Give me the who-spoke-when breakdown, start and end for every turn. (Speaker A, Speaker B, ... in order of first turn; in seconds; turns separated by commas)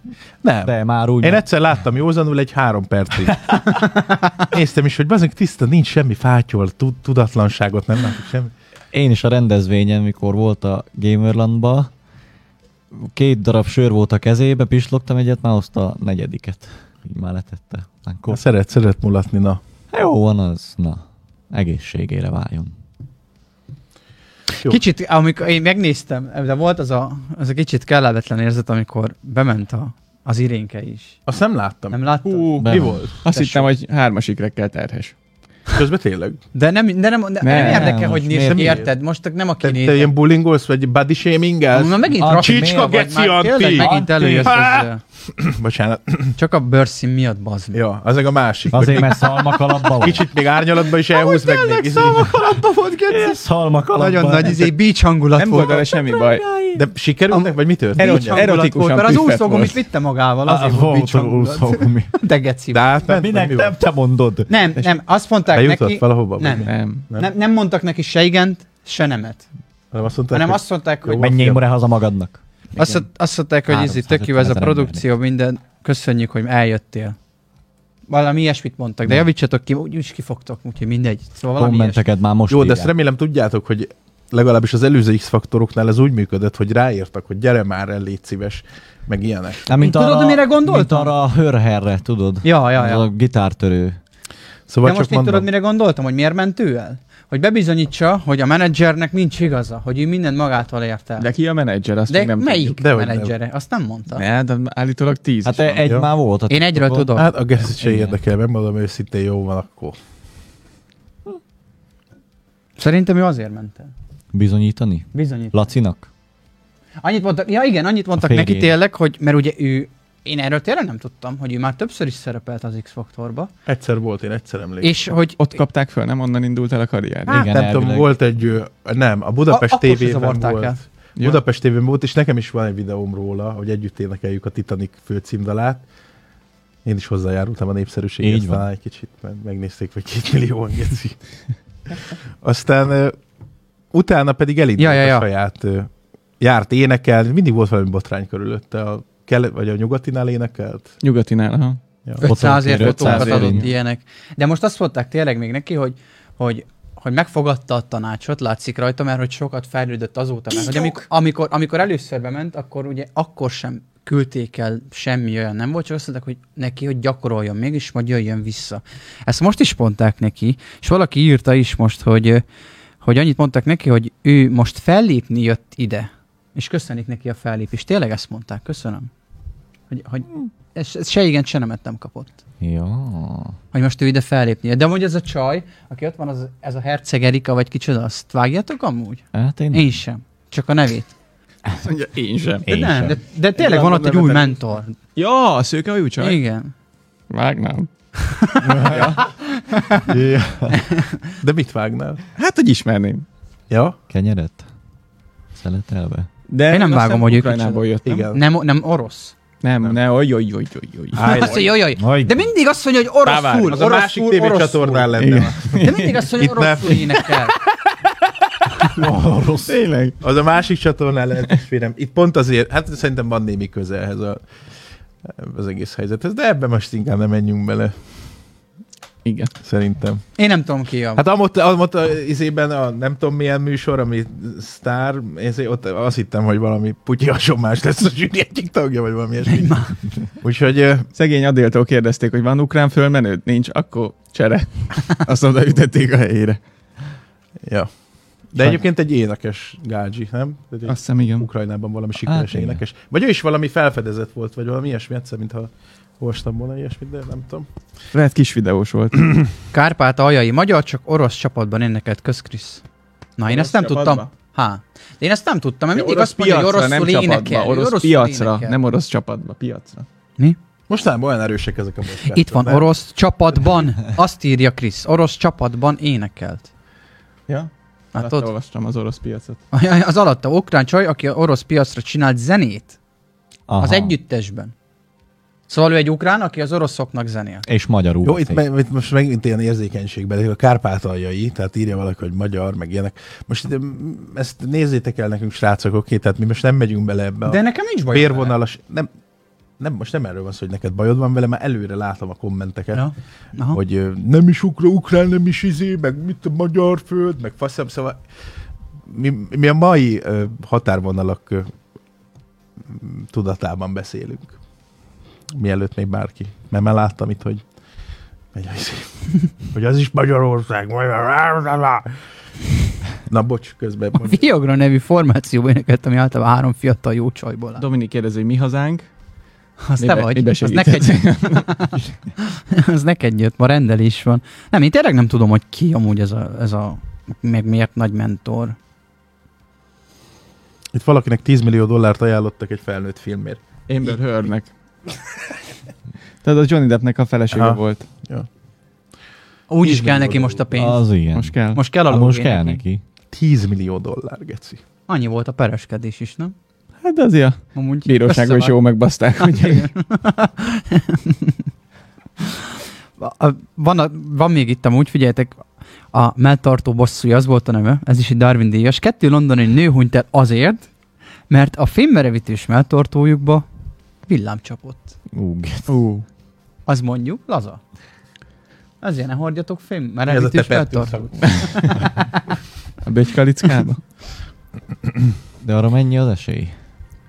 Speaker A: 0.4-3.8, Speaker B: 0.6-1.4, Speaker C: 3.7-4.3, Speaker A: 4.5-8.5, Speaker B: 8.9-11.9, Speaker B: 12.9-18.4, Speaker A: 18.3-19.6, Speaker B: 19.9-22.7, Speaker C: 24.7-31.2, Speaker A: 31.3-32.0, Speaker C: 31.9-33.7, Speaker D: 32.3-32.7, Speaker B: 32.6-33.0, Speaker A: 32.6-33.2, Speaker D: 33.2-35.1, Speaker A: 35.7-36.4, Speaker C: 36.5-40.1, Speaker D: 37.4-38.8, Speaker B: 37.6-38.8, Speaker A: 38.4-38.9, Speaker A: 39.6-46.3, Speaker C: 41.7-45.0, Speaker B: 42.2-42.7, Speaker B: 43.8-44.6, Speaker C: 46.4-47.8, Speaker A: 47.7-52.4, Speaker B: 48.7-50.2, Speaker C: 51.1-53.4, Speaker B: 52.0-54.7, Speaker C: 54.0-56.4, Speaker D: 55.4-56.5, Speaker A: 56.7-58.5, Speaker C: 57.3-62.8, Speaker D: 58.0-59.8, Speaker B: 60.5-62.1, Speaker A: 62.7-63.7, Speaker B: 63.1-64.5, Speaker C: 64.5-69.5, Speaker A: 65.5-67.3, Speaker D: 66.6-67.0, Speaker A: 69.9-71.6, Speaker C: 70.3-71.2, Speaker B: 71.2-73.1, Speaker C: 72.8-77.2, Speaker B: 73.7-75.0, Speaker C: 78.1-82.0, Speaker B: 81.6-82.9, Speaker A: 82.5-89.7, Speaker B: 89.7-94.0, Speaker C: 89.8-91.1, Speaker C: 92.4-93.1, Speaker A: 94.7-95.5, Speaker C: 94.8-101.3, Speaker D: 101.2-102.8, Speaker C: 102.1-104.2, Speaker A: 102.8-103.3, Speaker D: 104.1-105.9, Speaker B: 105.5-108.2, Speaker C: 106.5-107.3, Speaker A: 107.1-110.0, Speaker C: 112.8-113.9, Speaker B: 114.3-116.1, Speaker C: 115.1-115.6, Speaker C: 117.0-123.5, Speaker B: 118.2-118.8, Speaker A: 123.7-124.9, Speaker C: 124.8-125.5, Speaker D: 125.4-127.5, Speaker B: 127.3-128.1, Speaker A: 127.3-135.8, Speaker C: 129.5-130.8, Speaker A: 136.8-141.2, Speaker B: 138.2-138.7, Speaker A: 142.4-143.2, Speaker A: 143.9-150.9, Speaker C: 144.8-145.3, Speaker D: 151.0-151.8, Speaker C: 152.2-172.4, Speaker B: 152.2-153.7, Speaker D: 152.8-153.7, Speaker D: 160.5-161.1, Speaker C: 173.0-179.1, Speaker C: 179.9-182.3, Speaker B: 182.6-183.6, Speaker C: 183.7-191.1, Speaker B: 189.3-189.8, Speaker D: 191.8-192.7, Speaker B: 192.7-193.2, Speaker C: 192.7-194.9, Speaker D: 193.6-194.4, Speaker D: 195.2-196.4, Speaker C: 196.2-196.7, Speaker D: 197.3-197.9, Speaker C: 198.2-200.1, Speaker A: 198.6-199.1, Speaker D: 198.8-199.3, Speaker B: 200.1-200.8, Speaker C: 200.7-201.2, Speaker A: 201.4-202.2, Speaker D: 202.4-203.3, Speaker A: 203.7-204.0, Speaker B: 204.1-204.7, Speaker B: 205.5-206.3, Speaker D: 206.5-208.3, Speaker C: 206.7-209.3, Speaker A: 208.0-208.4, Speaker D: 209.6-211.7, Speaker A: 211.2-211.7, Speaker C: 211.2-215.1, Speaker B: 211.9-212.4, Speaker D: 213.2-213.8, Speaker A: 213.7-217.3, Speaker D: 215.2-216.3, Speaker C: 215.7-217.6, Speaker B: 218.9-219.8, Speaker D: 219.7-220.2, Speaker A: 220.2-224.4, Speaker A: 225.2-227.9, Speaker D: 229.2-229.5, Speaker A: 229.6-230.2, Speaker C: 230.4-231.2, Speaker A: 231.2-239.8, Speaker C: 239.5-239.9, Speaker A: 240.4-241.1, Speaker D: 241.2-246.6, Speaker A: 247.7-247.9, Speaker A: 248.5-257.7, Speaker B: 248.6-248.8, Speaker D: 250.9-251.5, Speaker B: 252.2-252.8, Speaker D: 258.1-259.4, Speaker C: 259.7-262.8, Speaker C: 263.4-268.8, Speaker D: 263.5-264.3, Speaker D: 265.9-270.1, Speaker A: 270.9-272.9, Speaker C: 272.3-276.7, Speaker D: 277.5-279.6, Speaker C: 278.1-278.5, Speaker C: 279.7-283.0, Speaker B: 283.7-284.1, Speaker C: 283.8-284.7, Speaker C: 285.7-287.7, Speaker B: 287.7-288.6, Speaker A: 288.2-297.6, Speaker C: 297.5-298.6, Speaker A: 298.1-299.1, Speaker A: 299.8-303.0, Speaker C: 302.9-303.8, Speaker A: 303.7-308.2, Speaker A: 309.1-311.7, Speaker A: 312.9-314.6, Speaker A: 315.5-317.6, Speaker A: 318.5-322.1, Speaker A: 323.3-324.4, Speaker C: 324.2-327.8, Speaker D: 327.8-329.1, Speaker C: 329.8-338.8, Speaker D: 330.0-331.7, Speaker A: 340.9-344.1, Speaker D: 343.9-344.7, Speaker D: 346.4-348.1, Speaker A: 347.5-348.5, Speaker C: 349.7-351.0, Speaker A: 349.8-350.6, Speaker B: 350.7-353.0, Speaker D: 351.3-351.8, Speaker C: 351.7-352.8, Speaker A: 353.3-354.8, Speaker C: 355.1-356.5, Speaker D: 357.0-359.9, Speaker C: 357.8-358.8, Speaker C: 359.4-361.6, Speaker C: 363.2-365.6, Speaker C: 366.1-370.9, Speaker C: 371.5-373.7, Speaker C: 374.3-375.1, Speaker B: 375.3-375.9, Speaker D: 375.9-376.3, Speaker C: 376.9-377.8, Speaker C: 379.0-382.4, Speaker A: 380.3-381.6, Speaker D: 381.4-382.1, Speaker D: 383.0-384.0, Speaker B: 385.6-386.8